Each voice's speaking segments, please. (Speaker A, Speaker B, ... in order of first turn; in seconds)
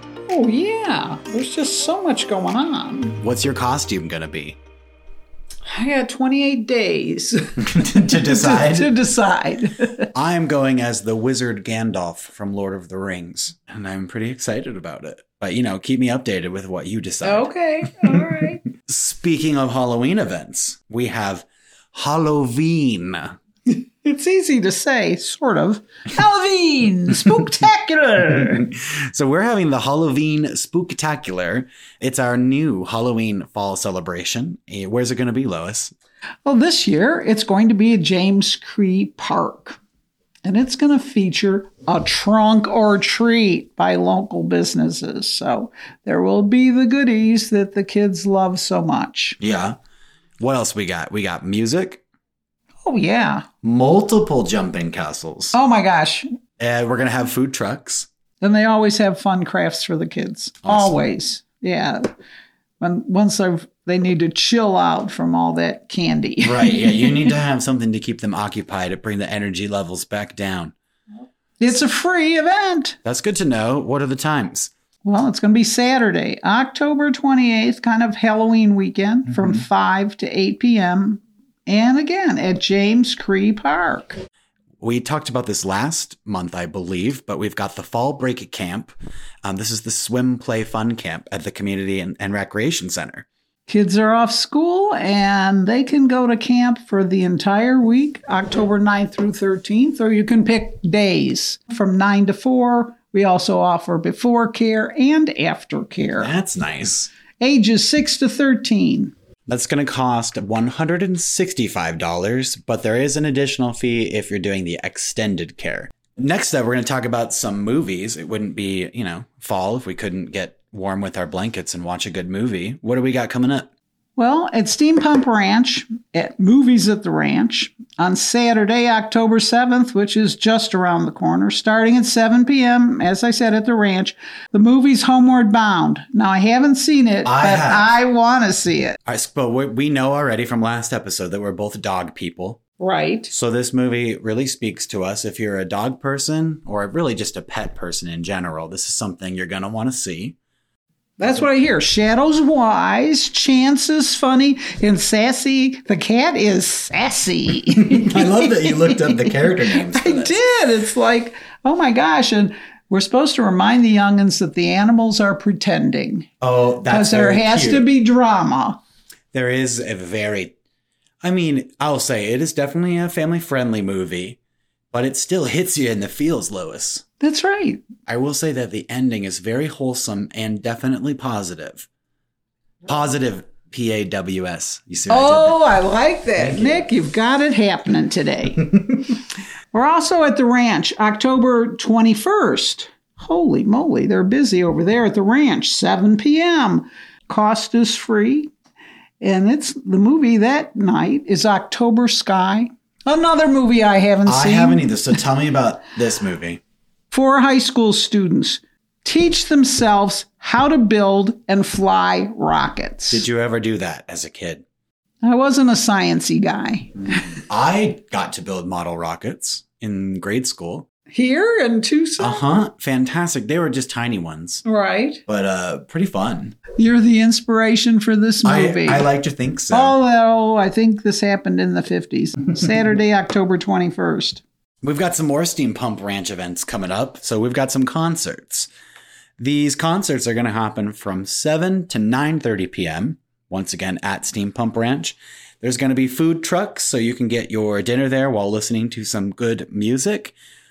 Speaker A: 0.3-3.2, 5.7-10.1, 17.2-18.6, 23.7-28.7, 36.5-39.8, 40.4-49.4, 52.9-53.5, 55.5-56.3, 58.4-62.0, 62.8-67.4, 71.6-73.0, 75.0-84.2, 93.7-106.3, 107.4-109.1, 124.2-139.0, 142.8-143.3, 151.2-166.3, 166.9-168.8, 177.2-177.8, 185.1-188.9, 189.7-198.5, 199.2-204.9, 207.1-213.2, 215.2-217.4, 221.1-222.4, 224.7-225.2, 226.8-229.1, 229.7-234.4
Speaker B: 3.2-4.6, 7.6-8.9, 10.1-17.5, 18.1-23.4, 28.5-35.9, 49.4-49.8, 50.4-52.0, 53.6-55.6, 56.6-58.1, 60.6-61.0, 66.4-70.7, 73.0-74.7, 79.3-79.6, 84.8-93.3, 106.2-107.1, 109.5-123.7, 137.2-137.9, 139.1-142.6, 143.3-150.4, 157.8-160.4, 166.4-167.9, 169.3-170.5, 171.2-174.4, 174.9-177.0, 178.1-181.9, 182.9-185.6, 186.4-186.9, 204.3-206.6, 213.1-214.7, 217.5-220.9, 222.2-224.7, 225.3-226.6, 228.4-230.0, 234.8-238.7, 239.4-250.3